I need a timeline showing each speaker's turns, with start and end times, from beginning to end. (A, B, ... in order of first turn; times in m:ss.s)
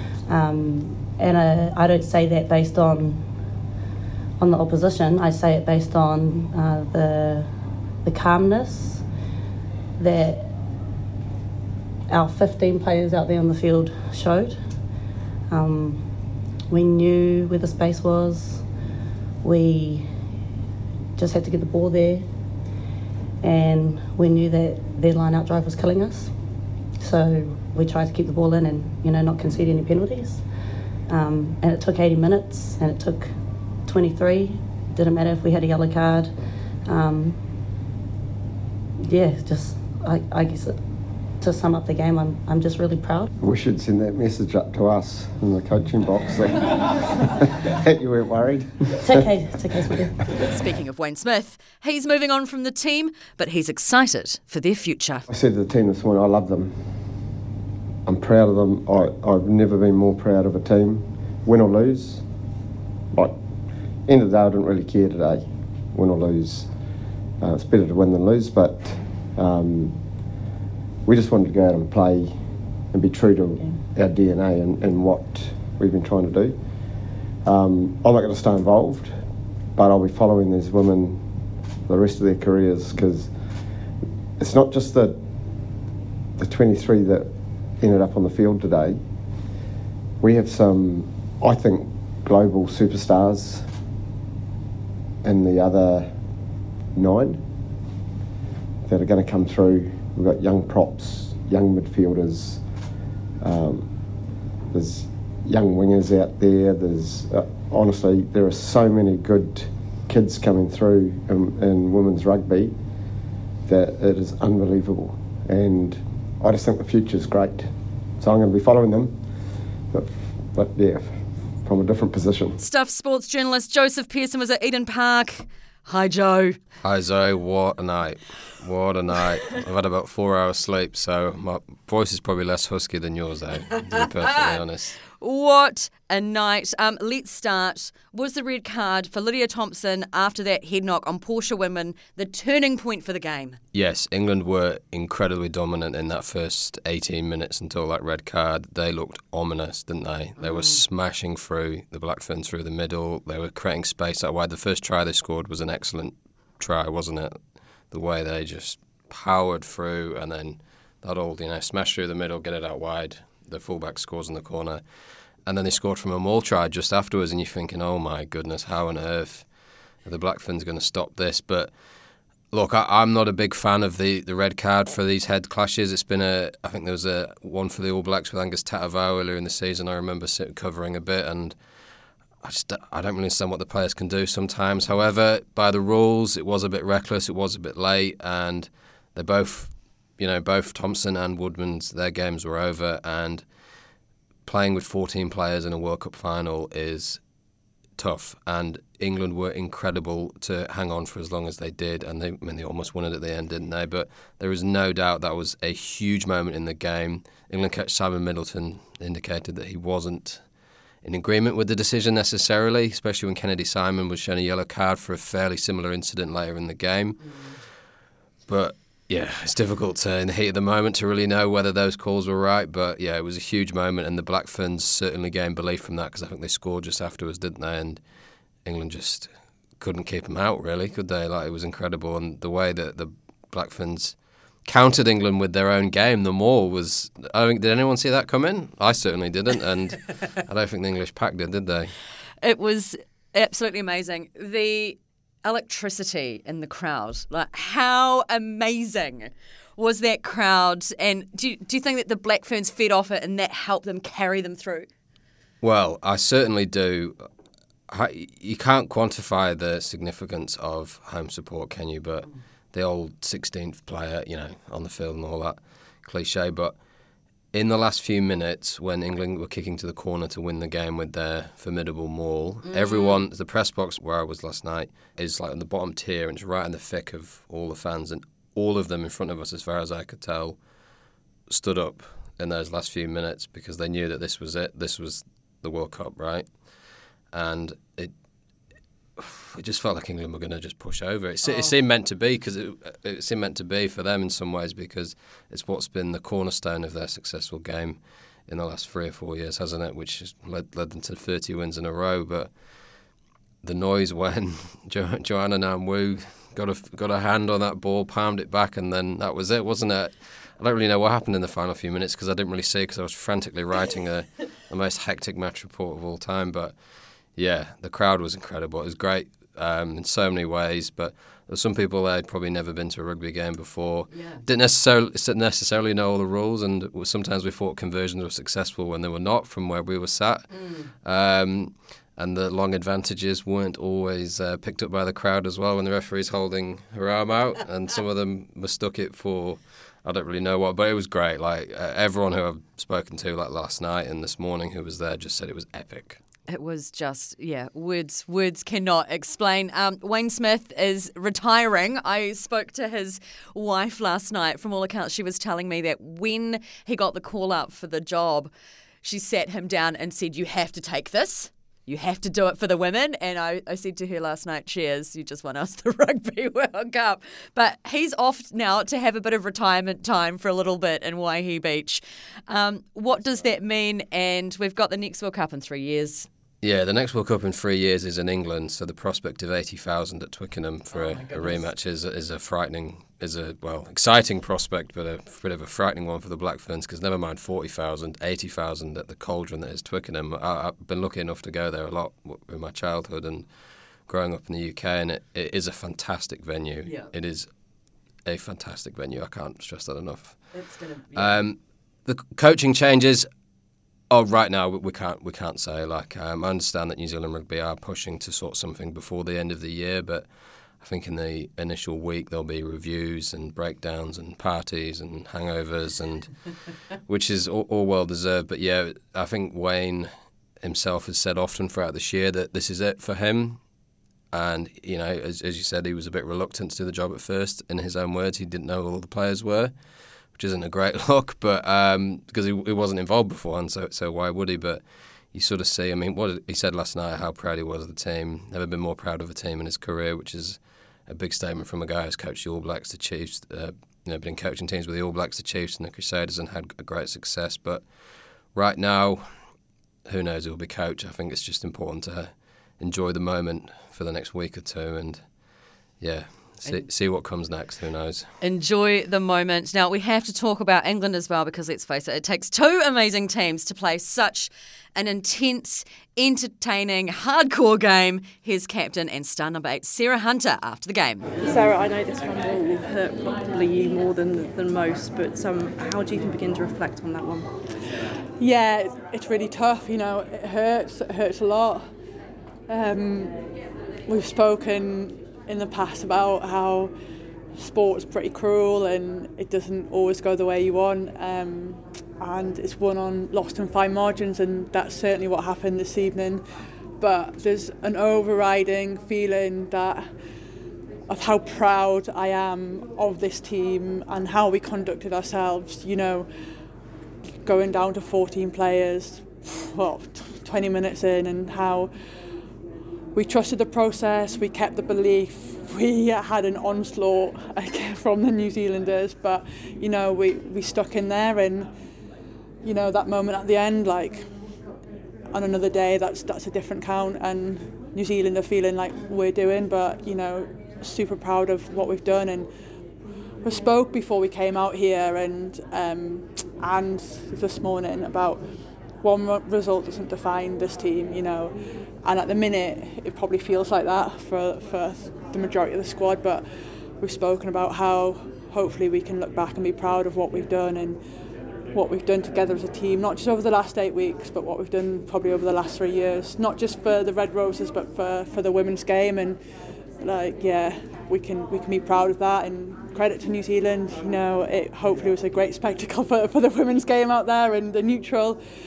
0:00.3-0:03.3 A
0:04.4-0:07.5 A
0:08.0-0:09.0 A
0:10.0-0:10.6 A
0:12.1-0:14.6 A
0:15.5-0:16.1 A
0:16.7-0:18.6 A
0:19.4-0:20.1 A
0:21.2-0:22.3 A
0:23.4-0:26.3 A
0:27.0-0:30.4 A
0:31.1-0:33.3 A
0:33.8-0:36.3 A
0:36.9-0:37.5 A
0:39.0-0:40.8 A
0:41.4-0:43.3 A
0:43.4-0:49.2 B
0:49.0-0:50.2 A
0:50.4-0:55.3 C
0:55.3-0:57.1 B
0:58.0-1:02.2 B
1:03.1-1:03.4 B
1:04.1-1:06.7 B
1:07.4-1:10.0 B
1:11.0-1:16.6 B
1:17.4-1:19.2 B
1:19.8-1:21.3 B
1:21.9-1:23.3 B
1:24.4-1:25.2 B
1:26.4-1:29.0 B
1:30.2-1:33.7 B
1:35.2-1:36.2 B
1:37.0-1:37.4 B
1:38.8-1:42.6 B
1:43.4-1:43.9 B
1:44.7-1:52.8 B
1:53.7-1:59.2 B
1:59.9-2:02.6 B
2:02.6-2:06.6 C
2:06.8-2:15.0 D
2:13.8-2:23.6 C
2:23.7-2:37.4 D
2:30.4-2:30.8 C
2:37.9-2:44.8 D
2:45.5-2:49.5 D
2:50.0-2:51.7 D
2:52.5-3:01.6 D
3:02.4-3:13.4 D
3:14.4-3:17.2 D
3:18.0-3:30.4 D
3:31.0-3:37.2 D
3:37.2-3:37.6 C
3:38.5-3:48.0 D
3:48.6-4:01.9 D
4:02.4-4:14.9 C
4:15.6-4:17.2 D
4:17.9-4:26.8 D
4:27.5-4:40.6 D
4:32.6-4:33.2 C
4:41.5-4:46.5 D
4:47.3-4:48.1 D
4:49.2-5:02.5 D
4:51.4-4:51.7 C
5:03.6-5:16.8 D
5:17.3-5:46.2 D
5:24.1-5:24.4 C
5:30.5-5:30.9 C
5:46.5-5:58.5 C
5:59.0-6:16.3 C
6:16.6-6:33.5 D
6:20.9-6:21.6 C
6:34.1-6:37.5 D
6:36.8-6:37.1 C
6:38.2-6:40.4 D
6:40.5-6:41.4 C
6:41.1-6:43.3 D
6:44.1-6:56.3 D
6:57.1-7:03.6 D
7:04.3-7:09.7 D
7:10.3-7:27.9 D
7:28.5-7:29.3 D
7:30.1-7:35.2 D
7:36.0-7:38.3 D
7:38.4-7:51.3 C
7:51.4-7:57.5 E
7:58.4-8:01.9 F
8:02.7-8:03.4 F
8:04.1-8:06.9 F
8:07.6-8:16.4 F
8:17.0-8:20.1 F
8:21.1-8:26.3 F
8:27.4-8:31.9 F
8:33.2-8:41.7 F
8:42.6-8:44.3 F
8:45.3-8:52.5 F
8:53.4-8:58.4 F
8:59.0-9:01.5 F
9:02.0-9:06.4 F
9:07.0-9:11.0 F
9:11.7-9:19.4 F
9:20.0-9:28.4 F